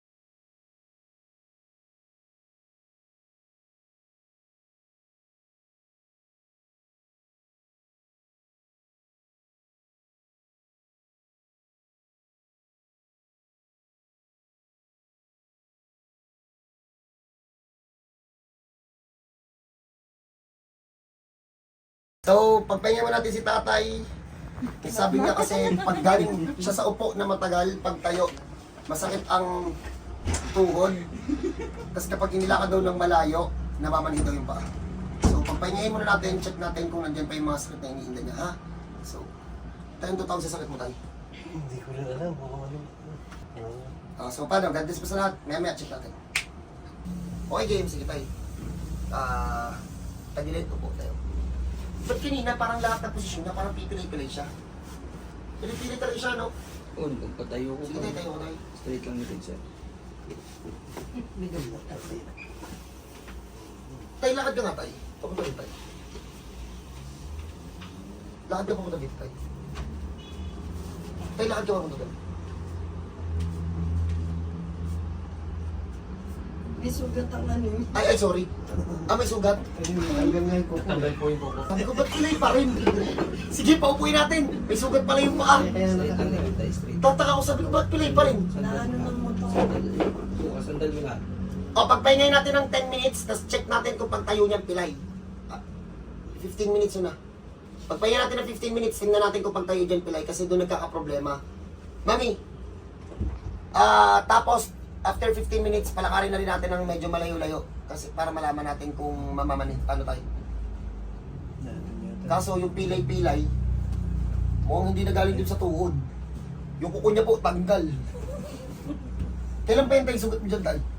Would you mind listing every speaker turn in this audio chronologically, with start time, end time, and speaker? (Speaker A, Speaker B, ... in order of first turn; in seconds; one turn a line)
Speaker A: 22.2-24.0
Speaker A: 24.8-28.3
Speaker A: 28.9-29.7
Speaker A: 30.4-31.0
Speaker A: 31.9-34.6
Speaker A: 35.2-39.3
Speaker A: 40.0-41.0
Speaker B: 41.5-44.0
Speaker A: 44.2-46.1
Speaker A: 47.5-48.3
Speaker A: 49.1-49.8
Speaker A: 50.4-51.2
Speaker A: 52.0-54.5
Speaker A: 55.6-56.5
Speaker C: 57.0-59.6
Speaker A: 57.8-58.6
Speaker B: 61.2-62.3
Speaker A: 64.2-65.7
Speaker A: 68.5-69.4
Speaker A: 71.4-72.1
Speaker D: 76.8-77.9
Speaker A: 77.9-78.5
Speaker B: 78.7-79.1
Speaker A: 79.1-79.6
Speaker B: 79.8-81.2
Speaker C: 80.8-81.9
Speaker A: 81.6-85.7
Speaker C: 85.5-87.2
Speaker B: 85.5-86.6
Speaker A: 87.0-88.5
Speaker C: 88.0-91.2
Speaker D: 88.6-89.7
Speaker A: 91.8-95.6
Speaker A: 96.4-97.2
Speaker A: 97.9-101.4
Speaker A: 102.1-102.4
Speaker A: 103.8-110.2
Speaker B: 111.6-112.4
Speaker A: 112.3-113.5
Speaker A: 114.7-116.1
Speaker A: 116.8-118.0
Speaker A: 119.7-120.8